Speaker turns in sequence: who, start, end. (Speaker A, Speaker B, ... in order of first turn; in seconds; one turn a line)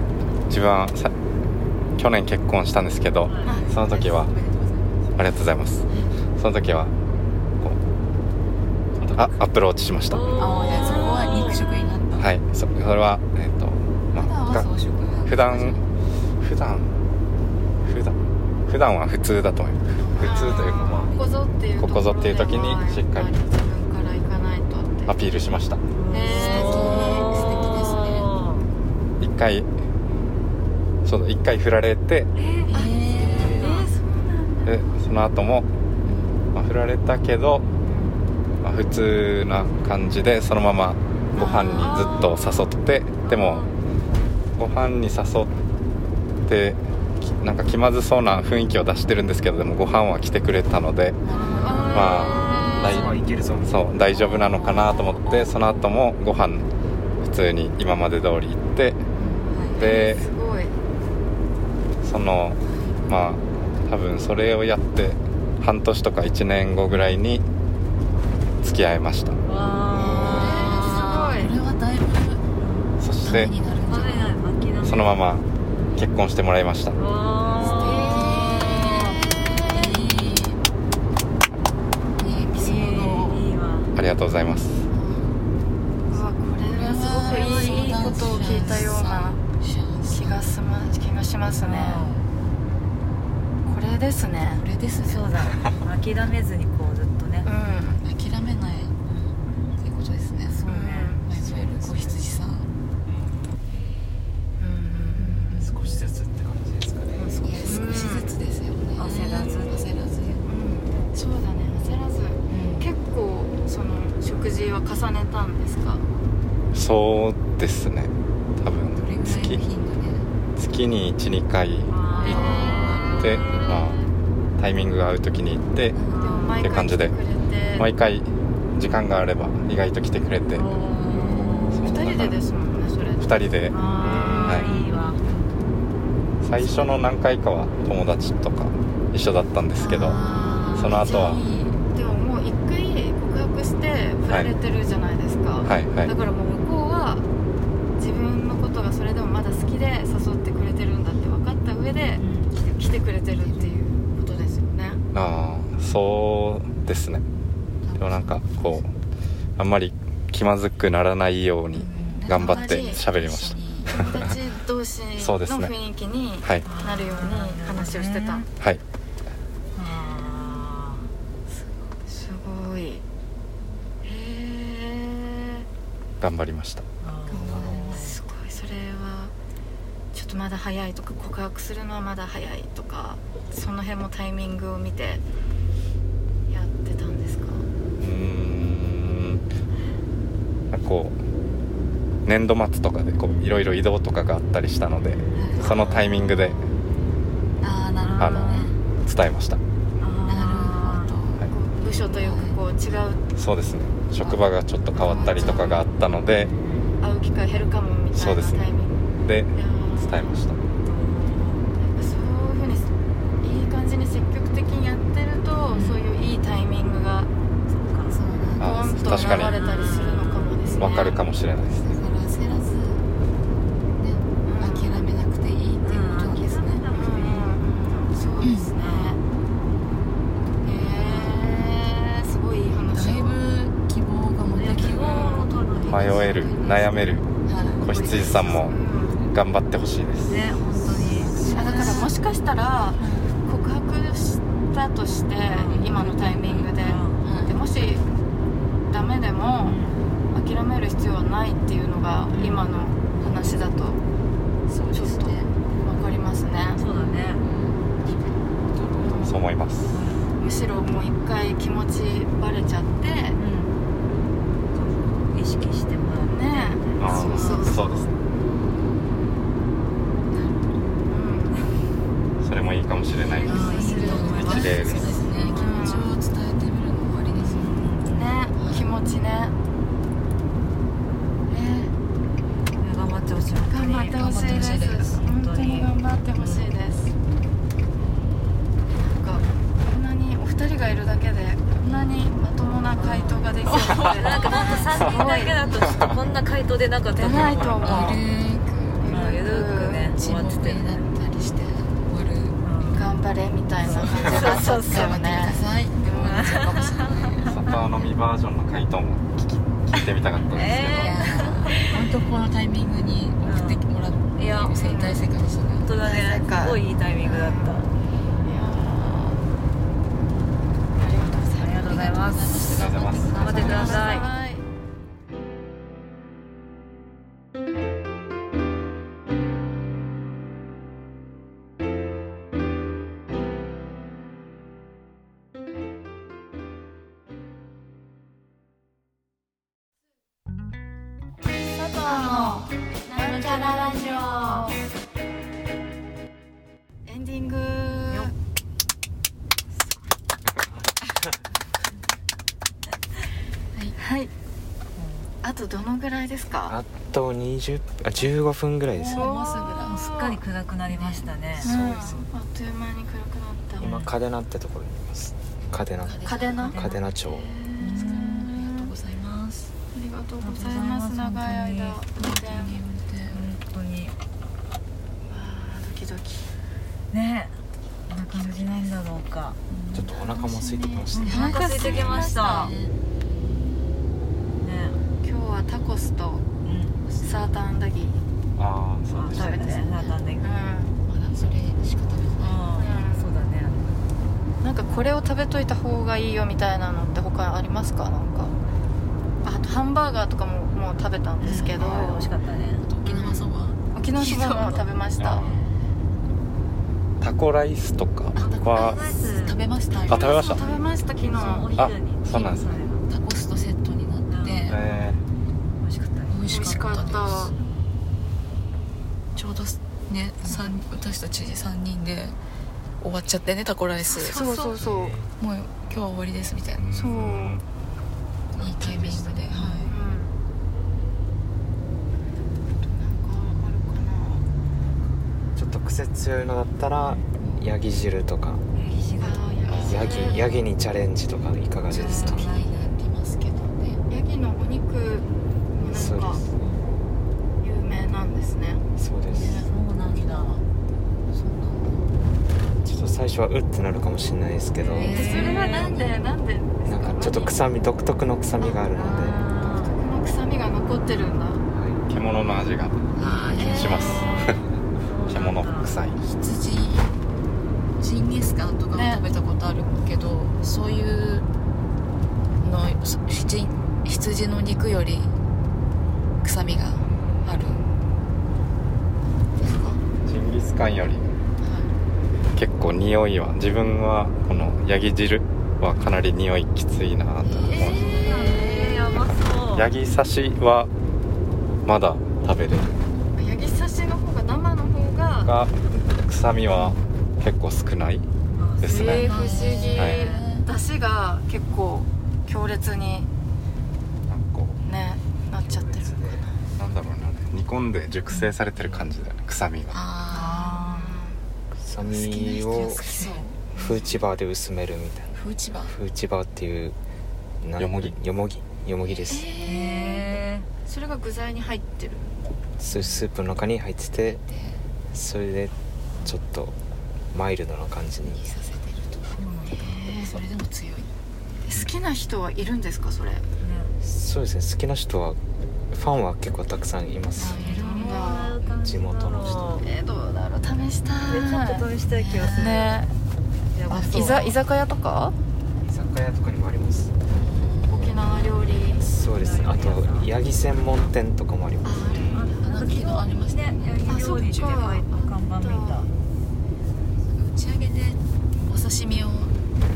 Speaker A: 0.5-1.1
Speaker A: 2.0-4.3
Speaker B: 3.3-3.6
Speaker C: 3.4-4.2
Speaker D: 3.5-5.1
Speaker A: 5.2-6.9
Speaker A: 9.0-10.6
Speaker B: 10.1-11.6
Speaker D: 10.4-12.3
Speaker A: 12.2-14.7
Speaker D: 14.1-15.8
Speaker A: 15.2-15.8
Speaker A: 16.4-16.9
Speaker A: 17.8-18.2
Speaker A: 18.7-21.1
Speaker D: 20.0-21.3
Speaker C: 20.2-25.2
Speaker A: 21.8-23.3
Speaker A: 25.1-25.8
Speaker B: 25.9-28.7
Speaker C: 26.1-27.7
Speaker D: 26.3-28.3
Speaker A: 29.2-29.7
Speaker A: 31.1-32.3
Speaker C: 32.4-34.9
Speaker D: 32.7-33.8
Speaker E: 33.1-33.8
Speaker A: 34.6-35.7
Speaker D: 36.0-36.4
Speaker A: 36.5-37.6
Speaker C: 37.8-38.2
Speaker A: 38.6-43.7
Speaker C: 41.4-42.7
Speaker B: 43.3-43.7
Speaker A: 44.6-45.5
Speaker A: 46.5-51.2
Speaker D: 51.2-52.3
Speaker B: 51.3-53.0
Speaker C: 51.5-53.1
Speaker A: 51.9-56.7
Speaker E: 52.8-53.8
Speaker A: 57.2-59.0
Speaker D: 59.1-59.9
Speaker A: 59.8-60.3
Speaker C: 59.8-60.8
Speaker A: 62.0-67.4
Speaker D: 62.6-63.1
Speaker A: 68.6-69.4
Speaker B: 69.5-71.3
Speaker C: 69.9-71.5
Speaker E: 70.0-70.4
Speaker D: 70.0-72.4
Speaker B: 72.6-72.9
Speaker A: 73.0-73.5
Speaker D: 73.2-74.4
Speaker B: 73.9-75.2
Speaker A: 74.8-77.0
Speaker B: 77.0-79.2
Speaker D: 77.6-80.6
Speaker C: 77.6-79.7
Speaker D: 82.2-83.5
Speaker B: 82.5-83.9
Speaker A: 83.9-84.9
Speaker D: 84.9-85.2
Speaker C: 86.1-89.4
Speaker D: 86.7-90.5
Speaker B: 87.2-88.9
Speaker C: 90.1-92.1
Speaker B: 91.6-92.2
Speaker C: 93.7-94.7
Speaker D: 94.5-95.5
Speaker B: 95.0-97.5
Speaker C: 97.4-98.0
Speaker D: 98.0-99.0
Speaker B: 99.1-99.3
Speaker D: 99.8-100.7
Speaker B: 100.5-101.2
Speaker C: 100.7-101.3
Speaker D: 101.2-102.7
Speaker C: 104.6-105.7
Speaker D: 105.2-105.8
Speaker E: 105.6-107.6
Speaker C: 107.2-108.3
Speaker D: 107.4-110.5
Speaker B: 109.0-110.4
Speaker C: 110.5-116.0
Speaker D: 112.5-112.9
Speaker A: 116.7-119.6
Speaker D: 119.0-120.3
Speaker A: 120.6-122.6
Speaker B: 121.9-123.8
Speaker C: 122.2-123.2
Speaker D: 122.2-123.5
Speaker A: 123.2-124.0
Speaker A: 124.6-126.0
Speaker D: 125.9-126.5
Speaker B: 126.1-126.8
Speaker C: 126.2-127.9
Speaker A: 126.6-127.2
Speaker A: 127.8-130.7
Speaker B: 130.6-131.9
Speaker D: 130.7-131.9
Speaker C: 131.8-135.2
Speaker A: 131.8-132.4
Speaker A: 133.2-133.8
Speaker B: 133.7-135.3
Speaker E: 134.0-134.4
Speaker A: 134.4-134.7
Speaker A: 136.4-140.2
Speaker C: 136.6-136.9
Speaker C: 139.8-147.3
Speaker B: 140.0-141.1
Speaker D: 140.0-140.9
Speaker A: 140.7-141.4
Speaker A: 145.6-146.1
Speaker C: 148.0-155.0
Speaker B: 152.2-152.5
Speaker D: 153.3-153.8
Speaker A: 155.1-157.2
Speaker D: 157.8-158.8
Speaker A: 158.0-158.9
Speaker A: 159.6-163.6
Speaker D: 161.7-164.6
Speaker B: 161.9-162.3
Speaker C: 162.4-163.0
Speaker C: 163.9-168.5
Speaker A: 165.2-165.7
Speaker B: 166.6-168.5
Speaker B: 169.8-171.1
Speaker D: 171.5-171.9
Speaker C: 172.1-173.0
Speaker C: 174.0-175.7
Speaker A: 176.2-176.9
Speaker B: 177.0-178.2
Speaker D: 177.3-178.2
Speaker C: 177.6-179.3
Speaker C: 180.1-185.2
Speaker C: 186.5-187.7
Speaker A: 188.0-189.5
Speaker A: 190.7-191.2
Speaker A: 192.2-196.7
Speaker B: 195.1-196.0
Speaker D: 195.3-196.0
Speaker C: 195.6-196.5
Speaker D: 197.6-198.7
Speaker B: 198.0-198.8
Speaker A: 198.2-199.6
Speaker B: 200.0-201.1
Speaker D: 200.2-201.4
Speaker C: 201.5-203.2
Speaker D: 202.1-202.6
Speaker A: 203.4-206.5
Speaker D: 205.0-205.7
Speaker C: 205.0-205.7
Speaker B: 206.3-206.9
Speaker C: 207.0-209.0
Speaker A: 208.1-210.6
Speaker C: 209.5-210.4
Speaker B: 210.8-211.7
Speaker C: 211.8-212.9
Speaker C: 213.4-217.3
Speaker D: 215.7-216.0
Speaker B: 217.7-218.2
Speaker D: 218.1-219.5
Speaker A: 218.6-219.6
Speaker C: 218.6-221.2
Speaker B: 219.3-220.9
Speaker A: 220.8-221.9
Speaker D: 221.8-223.0
Speaker D: 224.0-226.9
Speaker C: 224.4-225.0
Speaker B: 225.8-229.2
Speaker C: 226.9-229.2
Speaker D: 228.4-228.7
Speaker C: 230.6-233.4
Speaker B: 230.7-231.7
Speaker D: 232.9-236.9
Speaker B: 234.5-237.1
Speaker C: 234.9-235.5
Speaker A: 235.9-237.3
Speaker D: 237.4-237.9
Speaker A: 237.8-240.5
Speaker C: 237.8-239.2
Speaker E: 239.0-239.3
Speaker B: 240.3-242.0
Speaker D: 241.0-242.1
Speaker C: 241.5-248.0
Speaker D: 243.0-243.3
Speaker B: 245.5-247.2
Speaker D: 245.7-247.5
Speaker C: 248.9-249.8
Speaker B: 249.6-250.1
Speaker C: 250.3-254.0
Speaker B: 252.3-252.8
Speaker D: 254.7-255.5
Speaker C: 254.9-256.8
Speaker B: 256.8-257.4
Speaker D: 257.3-257.8
Speaker E: 258.1-259.3
Speaker C: 259.0-259.4
Speaker A: 259.2-260.0
Speaker B: 259.9-260.3
Speaker C: 260.4-263.4
Speaker B: 263.4-263.8
Speaker B: 264.7-267.8
Speaker C: 266.2-268.1
Speaker A: 267.0-268.1
Speaker D: 270.3-270.7
Speaker C: 271.1-271.6
Speaker A: 272.4-275.2
Speaker C: 273.3-276.2
Speaker B: 273.4-275.9
Speaker D: 273.5-277.9
Speaker B: 277.4-278.4
Speaker C: 278.1-279.6
Speaker D: 278.6-278.9
Speaker C: 281.5-281.9
Speaker B: 282.8-286.7
Speaker C: 283.7-287.1
Speaker D: 284.2-285.1
Speaker C: 288.9-295.7
Speaker B: 291.9-292.1
Speaker B: 292.9-298.2
Speaker C: 297.2-298.2
Speaker D: 297.2-299.2
Speaker C: 299.0-300.1
Speaker B: 299.1-301.0
Speaker D: 300.1-302.6
Speaker B: 302.6-303.1
Speaker C: 302.9-306.5
Speaker B: 303.8-305.5
Speaker D: 303.9-307.6
Speaker B: 306.1-307.8
Speaker A: 307.5-311.2
Speaker B: 310.5-312.0
Speaker D: 311.0-315.9
Speaker B: 313.4-313.8
Speaker B: 314.4-314.9
Speaker C: 314.8-315.2
Speaker B: 315.8-317.9
Speaker C: 316.0-317.8
Speaker C: 318.4-319.4
Speaker C: 320.9-322.0
Speaker B: 321.3-324.3
Speaker D: 321.8-324.2
Speaker A: 322.7-324.0
Speaker C: 323.3-324.6
Speaker C: 341.7-344.8
Speaker B: 343.2-344.6
Speaker C: 347.1-348.3
Speaker C: 354.0-354.3
Speaker B: 355.0-355.3
Speaker C: 355.4-356.8
Speaker E: 356.7-359.4
Speaker D: 358.9-360.1
Speaker C: 359.1-360.4
Speaker B: 359.9-361.7
Speaker D: 360.9-362.3
Speaker C: 361.6-364.0
Speaker E: 363.8-367.5
Speaker D: 366.0-366.8
Speaker C: 366.2-368.9
Speaker B: 366.7-367.0
Speaker B: 367.8-368.6
Speaker D: 367.9-369.7
Speaker C: 369.9-372.8
Speaker B: 370.4-372.0
Speaker D: 372.2-373.4
Speaker B: 373.3-374.1
Speaker C: 375.3-376.5
Speaker B: 377.1-377.6
Speaker B: 378.1-379.6
Speaker C: 378.4-378.9
Speaker D: 379.7-380.2
Speaker E: 379.9-381.6
Speaker C: 380.1-382.7
Speaker B: 381.1-382.7
Speaker D: 381.2-382.9
Speaker B: 384.6-385.0
Speaker C: 385.2-386.5
Speaker B: 386.6-387.0
Speaker C: 387.2-388.2
Speaker A: 388.6-389.6
Speaker B: 389.1-390.5
Speaker C: 389.3-390.9
Speaker D: 391.0-392.6
Speaker B: 392.4-394.0
Speaker C: 392.8-393.3
Speaker C: 394.6-398.6
Speaker C: 399.4-402.3
Speaker B: 401.4-402.9
Speaker D: 401.7-402.0
Speaker D: 402.8-404.9
Speaker C: 403.1-405.5
Speaker A: 405.2-405.6
Speaker A: 407.2-409.0
Speaker D: 408.4-410.7
Speaker B: 408.7-413.1
Speaker A: 410.1-410.7
Speaker C: 410.3-411.7
Speaker A: 411.8-412.8
Speaker D: 413.1-414.8
Speaker B: 414.3-415.2
Speaker A: 414.7-415.2
Speaker B: 415.8-417.3
Speaker D: 416.3-417.5
Speaker C: 416.5-417.6
Speaker D: 419.4-422.4
Speaker D: 423.0-424.8
Speaker C: 424.1-425.2
Speaker E: 424.8-425.3
Speaker D: 425.4-427.0
Speaker A: 426.8-427.6
Speaker C: 426.9-427.6
Speaker D: 428.6-429.9
Speaker E: 428.6-429.3
Speaker B: 429.5-429.9
Speaker C: 429.9-430.4
Speaker C: 432.8-434.4
Speaker E: 435.6-438.6
Speaker D: 437.4-437.6
Speaker B: 438.7-440.4
Speaker C: 439.2-440.5
Speaker A: 439.7-440.1
Speaker E: 439.8-442.5
Speaker B: 441.9-442.7
Speaker D: 441.9-444.0
Speaker C: 444.1-446.4
Speaker E: 445.9-446.4
Speaker B: 446.6-446.9
Speaker C: 447.6-448.8
Speaker E: 449.0-449.6
Speaker B: 449.3-450.6
Speaker D: 449.3-450.6
Speaker D: 451.3-452.0
Speaker E: 452.8-455.2
Speaker B: 454.8-456.1
Speaker D: 454.9-455.7
Speaker C: 455.0-457.6
Speaker E: 456.9-459.5
Speaker C: 458.6-458.9
Speaker B: 458.9-459.9
Speaker C: 459.7-461.6
Speaker E: 461.7-462.0
Speaker A: 462.1-464.6
Speaker D: 463.1-464.1
Speaker B: 463.2-465.9
Speaker C: 463.5-464.6
Speaker A: 465.3-466.2
Speaker D: 466.2-467.2
Speaker D: 468.0-471.5
Speaker C: 468.9-469.2
Speaker D: 472.6-475.3
Speaker D: 476.4-477.8
Speaker D: 479.6-480.0
Speaker A: 480.2-481.3
Speaker D: 481.6-481.9
Speaker A: 482.6-488.1
Speaker D: 487.4-488.9
Speaker C: 487.7-488.9
Speaker B: 487.7-489.9
Speaker A: 489.7-490.9
Speaker A: 491.9-492.9
Speaker C: 493.4-495.5
Speaker A: 495.4-498.3
Speaker B: 498.5-499.8
Speaker A: 498.8-499.3
Speaker C: 498.9-503.3
Speaker D: 498.9-500.7
Speaker A: 500.0-500.2
Speaker A: 504.3-504.8
Speaker C: 504.8-506.5
Speaker E: 505.6-506.5
Speaker A: 506.8-510.0
Speaker D: 509.9-510.6
Speaker B: 510.3-511.2
Speaker C: 510.3-511.4
Speaker E: 511.8-517.0
Speaker D: 512.0-513.7
Speaker D: 515.3-516.0
Speaker E: 517.6-519.5
Speaker A: 517.8-518.1
Speaker C: 519.3-522.3
Speaker B: 519.6-520.7
Speaker E: 522.8-524.4
Speaker B: 522.9-523.2
Speaker D: 524.5-524.8
Speaker E: 525.1-526.8
Speaker E: 527.3-528.4
Speaker D: 528.2-531.1
Speaker B: 529.4-529.8
Speaker C: 529.8-530.4
Speaker C: 531.6-533.5
Speaker B: 533.6-533.9
Speaker E: 534.0-535.4
Speaker E: 535.9-537.6
Speaker D: 537.4-538.2
Speaker C: 537.4-538.6
Speaker B: 537.6-539.9
Speaker E: 538.5-539.8
Speaker C: 539.8-541.9
Speaker B: 541.3-543.1
Speaker D: 542.1-542.9
Speaker C: 542.5-543.1
Speaker B: 543.7-544.5
Speaker D: 543.9-544.5
Speaker C: 543.9-545.4
Speaker E: 545.8-547.1
Speaker D: 547.3-548.6
Speaker C: 547.9-549.0
Speaker E: 549.0-552.4
Speaker B: 549.2-550.3
Speaker C: 551.8-552.7
Speaker B: 552.2-556.1
Speaker D: 552.6-554.1
Speaker C: 554.1-556.1
Speaker D: 557.3-559.5